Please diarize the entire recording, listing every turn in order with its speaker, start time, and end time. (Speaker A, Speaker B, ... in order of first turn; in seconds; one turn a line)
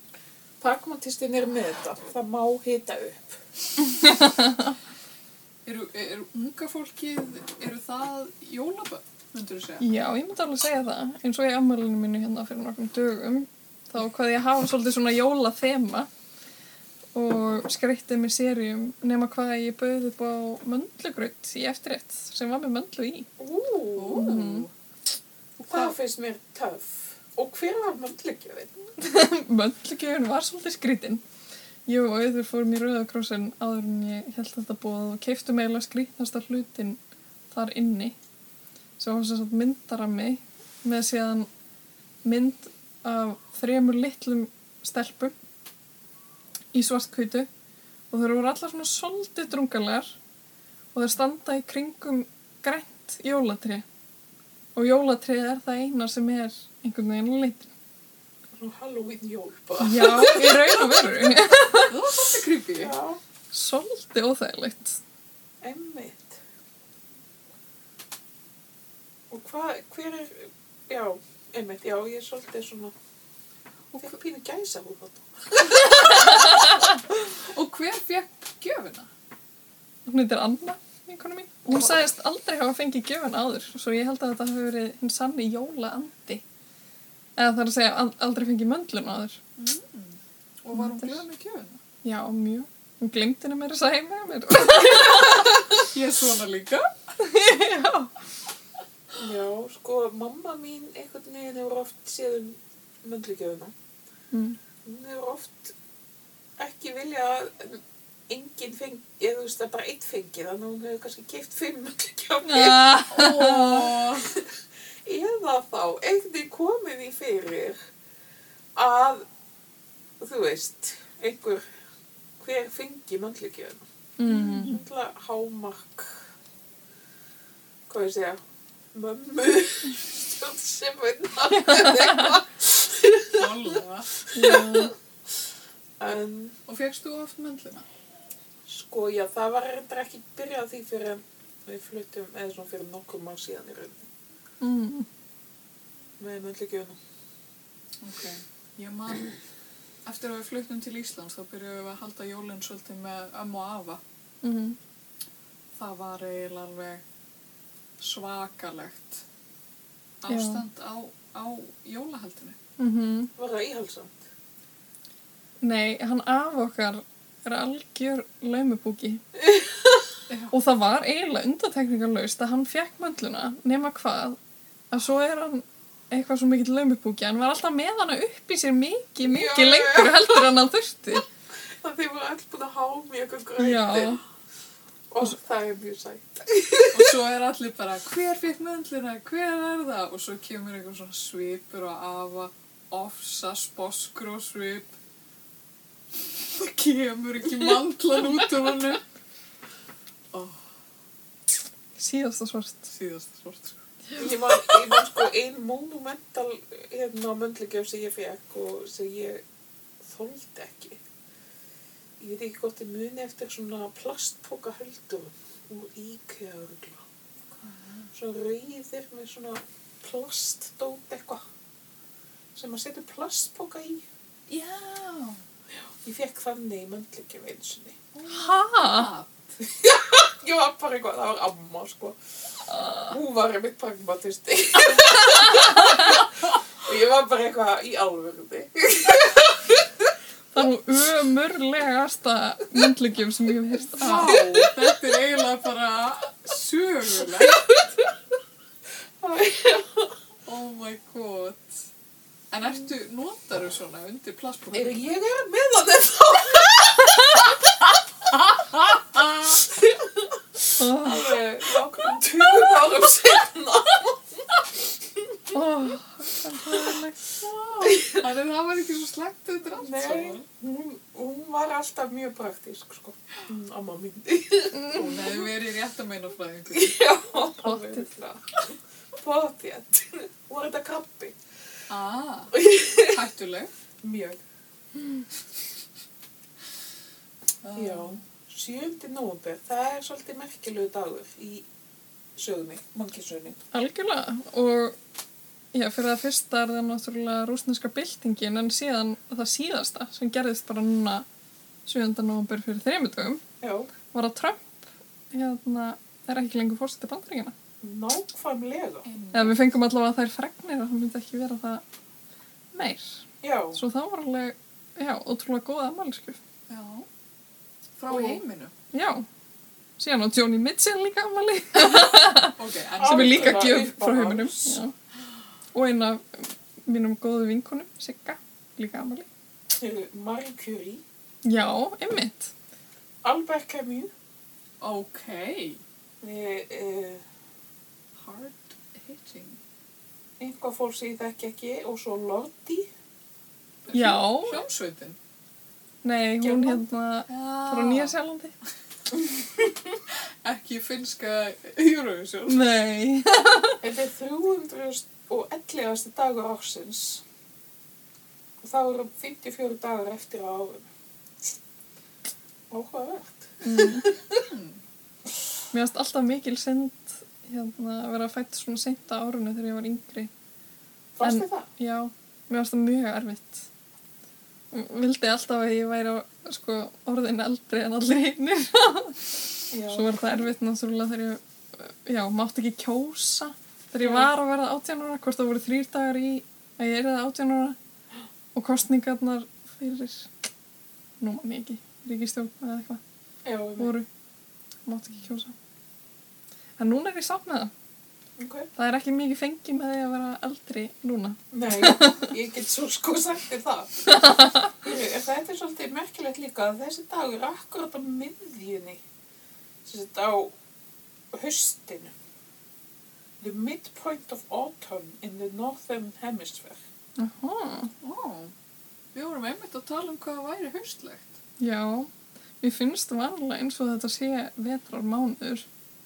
Speaker A: 0.6-3.4
Speaker B: 4.0-4.7
Speaker C: 5.7-9.9
Speaker B: 9.8-16.1
Speaker B: 17.1-23.3
Speaker A: 23.4-24.3
Speaker C: 24.0-24.7
Speaker B: 24.1-24.7
Speaker C: 25.6-25.9
Speaker A: 25.7-28.9
Speaker B: 29.0-31.2
Speaker B: 31.9-37.0
Speaker B: 37.5-38.2
Speaker B: 39.0-41.5
Speaker B: 42.2-45.4
Speaker B: 46.7-47.5
Speaker B: 48.1-50.1
Speaker B: 50.9-53.9
Speaker B: 54.8-57.7
Speaker A: 58.6-61.0
Speaker B: 59.8-62.0
Speaker C: 61.9-63.0
Speaker A: 62.8-63.2
Speaker B: 63.5-65.0
Speaker A: 65.6-66.4
Speaker A: 69.3-72.9
Speaker A: 74.0-76.0
Speaker B: 75.9-76.3
Speaker C: 76.3-79.1
Speaker B: 80.1-86.4
Speaker B: 87.4-89.4
Speaker C: 89.6-91.8
Speaker B: 90.7-91.2
Speaker B: 92.0-95.7
Speaker C: 95.8-96.9
Speaker B: 97.2-98.1
Speaker A: 99.2-103.7
Speaker B: 104.3-104.6
Speaker A: 104.8-105.7
Speaker A: 106.6-112.9
Speaker B: 112.4-114.0
Speaker C: 113.1-114.3
Speaker A: 115.0-117.8
Speaker A: 118.8-119.2
Speaker A: 120.2-121.6
Speaker A: 122.4-123.8
Speaker B: 124.2-124.8
Speaker C: 124.3-124.8
Speaker A: 124.6-126.2
Speaker A: 127.9-128.4
Speaker A: 128.9-133.5
Speaker B: 131.6-132.3
Speaker C: 133.3-134.2
Speaker A: 134.2-134.9
Speaker B: 134.3-134.9
Speaker A: 136.0-136.6
Speaker C: 136.7-137.9
Speaker A: 138.7-144.1
Speaker B: 144.6-145.1
Speaker A: 146.2-147.0
Speaker C: 148.0-149.3
Speaker C: 150.1-154.0
Speaker B: 154.4-154.8
Speaker C: 155.8-157.0
Speaker C: 158.0-159.2
Speaker C: 160.2-162.6
Speaker B: 160.3-160.6
Speaker B: 162.8-163.3
Speaker A: 163.4-164.3
Speaker B: 165.6-169.2
Speaker C: 170.3-170.5
Speaker B: 170.5-174.4
Speaker B: 174.9-181.2
Speaker A: 179.2-180.5
Speaker A: 181.8-184.2
Speaker B: 183.6-184.2
Speaker A: 185.1-187.1
Speaker C: 186.9-194.9
Speaker C: 196.2-199.0
Speaker C: 200.3-200.6
Speaker B: 202.0-202.9
Speaker C: 202.9-203.8
Speaker A: 204.2-209.4
Speaker A: 210.0-211.0
Speaker A: 212.2-217.0
Speaker C: 217.6-218.1
Speaker A: 218.2-221.4
Speaker A: 222.6-224.0
Speaker C: 224.5-225.4
Speaker A: 226.0-228.0
Speaker C: 228.2-229.5
Speaker B: 228.3-229.1
Speaker A: 229.6-232.2
Speaker B: 232.7-233.1
Speaker A: 232.8-239.8
Speaker B: 240.5-244.4
Speaker C: 244.0-247.7
Speaker A: 244.0-244.7
Speaker A: 247.7-248.1
Speaker A: 249.2-250.1
Speaker C: 250.5-251.9
Speaker C: 252.5-255.0
Speaker A: 254.7-257.4
Speaker A: 259.4-264.4
Speaker B: 260.8-261.4
Speaker B: 265.5-267.3
Speaker C: 267.8-270.4
Speaker A: 267.8-268.2
Speaker A: 269.8-275.4
Speaker C: 274.9-277.1
Speaker A: 276.7-278.7
Speaker B: 277.6-278.1
Speaker A: 279.2-281.4
Speaker C: 281.9-283.7
Speaker A: 282.5-283.2
Speaker A: 284.0-284.4
Speaker C: 287.6-288.2
Speaker A: 287.7-291.7
Speaker A: 292.4-293.6
Speaker B: 293.7-295.0
Speaker B: 295.7-301.3
Speaker B: 301.9-303.4
Speaker A: 303.6-303.9
Speaker B: 304.1-304.8
Speaker B: 305.3-307.6
Speaker A: 307.8-309.1
Speaker C: 309.1-309.6
Speaker B: 309.3-311.8
Speaker B: 312.7-316.4
Speaker A: 313.4-313.8
Speaker C: 316.7-317.1
Speaker C: 318.0-318.7
Speaker A: 318.1-318.4
Speaker B: 318.9-319.3
Speaker B: 320.0-324.9
Speaker C: 322.5-323.7
Speaker A: 323.0-324.8
Speaker B: 325.7-329.3
Speaker A: 329.8-331.0
Speaker B: 331.4-332.5
Speaker A: 333.2-334.1
Speaker C: 334.8-335.8
Speaker A: 336.2-337.2
Speaker C: 338.2-339.6
Speaker A: 340.4-342.9
Speaker C: 343.9-345.2
Speaker B: 343.9-344.6
Speaker B: 346.0-348.5
Speaker A: 346.4-346.8
Speaker C: 347.3-348.2
Speaker C: 350.4-352.6
Speaker B: 352.5-353.8
Speaker A: 353.8-357.2
Speaker A: 358.6-360.9
Speaker A: 362.7-364.4
Speaker B: 363.6-364.1
Speaker C: 364.4-364.8
Speaker B: 365.7-370.3
Speaker A: 371.2-371.7
Speaker B: 371.2-373.7
Speaker B: 374.7-387.8
Speaker A: 379.7-380.4
Speaker A: 384.0-384.3
Speaker B: 388.5-390.3
Speaker B: 391.2-393.0
Speaker A: 393.4-393.9
Speaker B: 393.8-394.1
Speaker B: 394.9-395.6
Speaker B: 396.8-397.7
Speaker A: 398.4-398.7
Speaker B: 398.8-402.3
Speaker A: 401.5-409.0
Speaker B: 404.1-404.7
Speaker A: 409.9-410.5
Speaker A: 411.3-412.1
Speaker A: 413.4-416.8
Speaker B: 417.2-417.9
Speaker C: 418.0-418.5
Speaker C: 419.1-421.4
Speaker B: 421.6-425.7